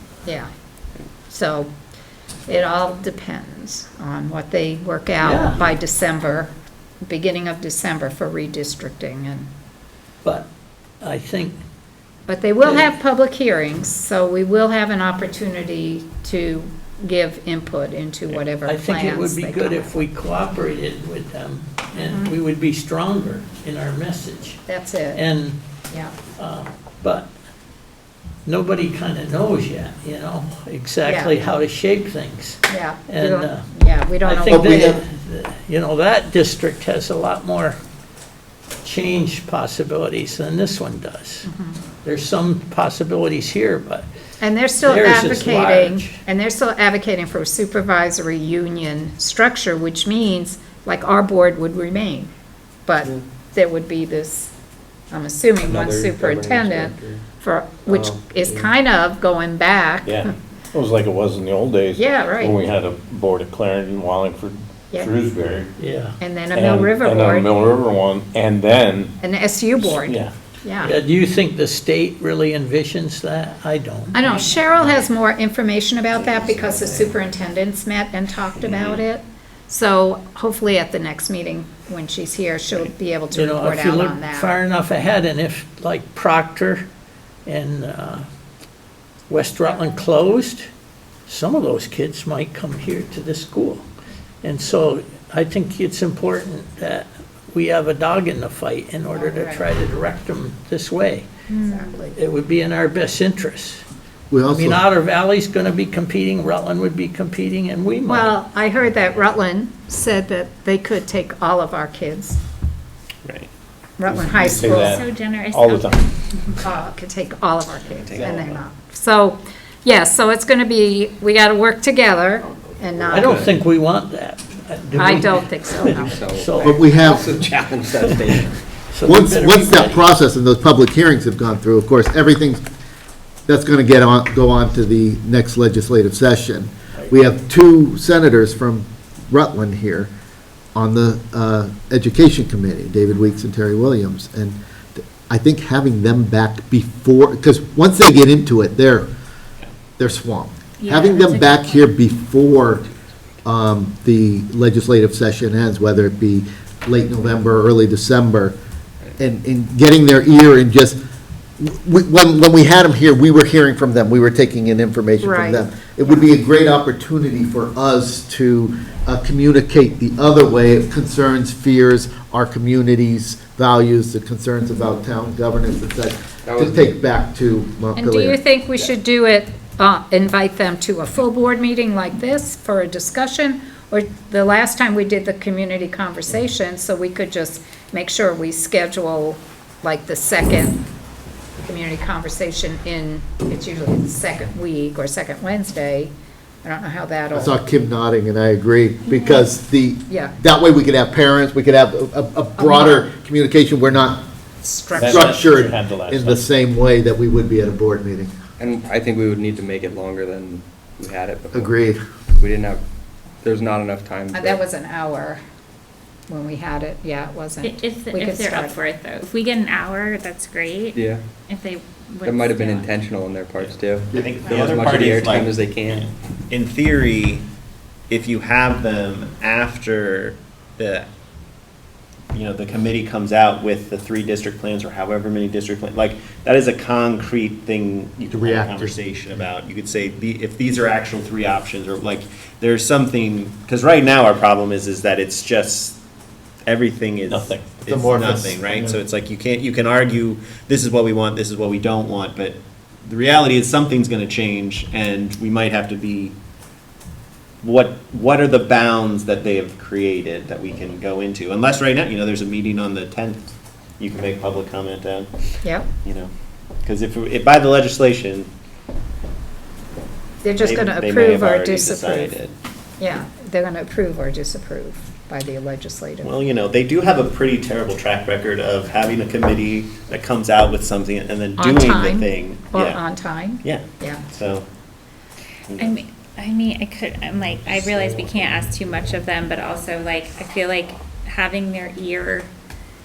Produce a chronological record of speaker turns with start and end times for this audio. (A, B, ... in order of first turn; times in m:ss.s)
0:01.3-0:01.7 A
0:02.5-0:06.5 A
0:05.2-0:05.6 B
0:07.0-0:09.5 A
0:10.2-0:10.5 B
0:11.0-0:11.6 B
0:12.3-0:20.0 A
0:12.6-0:12.9 B
0:18.3-0:25.6 B
0:22.0-0:22.3 A
0:24.7-0:25.2 A
0:26.3-0:27.3 B
0:28.4-0:33.7 B
0:31.0-0:31.3 A
0:32.7-0:34.9 A
0:34.2-0:37.8 B
0:34.5-0:35.0 C
0:38.8-0:41.5 B
0:41.4-0:41.8 A
0:42.0-0:44.1 B
0:44.4-0:52.3 A
0:44.8-0:46.2 B
0:52.9-0:54.5 A
0:55.1-1:00.3 A
0:55.6-0:57.2 D
0:57.9-0:58.7 D
1:00.0-1:05.7 E
1:01.9-1:02.6 A
1:05.8-1:06.2 B
1:06.2-1:07.6 A
1:06.5-1:09.1 E
1:09.2-1:10.9 A
1:09.8-1:10.3 E
1:10.8-1:14.2 B
1:14.1-1:24.6 A
1:14.2-1:15.0 F
1:16.2-1:16.8 G
1:18.6-1:19.0 G
1:23.3-1:26.9 B
1:27.4-1:28.2 B
1:29.3-1:30.7 B
1:31.3-1:33.9 B
1:34.4-1:41.3 B
1:39.1-1:39.7 A
1:41.5-1:41.9 F
1:41.6-1:42.2 A
1:42.1-1:43.8 B
1:44.3-1:44.8 C
1:44.5-1:48.3 B
1:48.1-1:52.4 A
1:53.2-1:53.5 G
1:54.0-1:55.0 A
1:54.1-1:56.0 E
1:54.7-1:56.6 F
1:56.5-2:03.4 A
1:58.0-1:58.6 G
2:03.0-2:03.5 D
2:03.1-2:07.0 B
2:05.0-2:06.1 A
2:06.0-2:08.6 D
2:06.6-2:07.3 C
2:08.0-2:10.1 B
2:09.0-2:12.6 C
2:13.5-2:20.1 C
2:20.8-2:24.6 C
2:25.1-2:29.1 C
2:30.0-2:32.9 C
2:30.8-2:31.8 F
2:33.4-2:38.6 C
2:39.2-2:41.0 C
2:41.6-2:58.4 C
2:45.2-2:46.2 A
2:56.5-2:56.9 D
2:58.0-3:10.8 A
3:11.6-3:16.1 A
3:16.6-3:17.6 A
3:17.3-3:24.2 C
3:19.1-3:19.5 F
3:20.1-3:20.3 A
3:22.6-3:23.1 A
3:24.6-3:25.4 A
3:24.9-3:26.4 E
3:25.0-3:28.3 C
3:28.6-3:31.8 D
3:31.5-3:32.0 C
3:32.4-3:32.8 D
3:33.4-3:34.6 D
3:34.3-3:35.4 A
3:36.3-3:38.8 A
3:37.6-3:42.9 F
3:41.0-3:41.2 D
3:42.2-3:46.1 D
3:43.6-3:47.4 G
3:48.1-3:51.1 G
3:52.3-4:06.0 G
3:58.3-3:59.0 C
4:06.7-4:16.4 G
4:07.3-4:07.8 E
4:07.9-4:09.0 C
4:17.6-4:25.3 G
4:25.6-4:25.9 A
4:26.0-4:26.3 G
4:26.8-4:28.5 G
4:30.4-4:32.4 A
4:30.6-4:32.5 G
4:33.0-4:36.3 A
4:36.2-4:43.0 G
4:41.6-4:44.2 A
4:43.6-4:44.6 G
4:45.7-4:46.0 G
4:45.8-4:52.5 F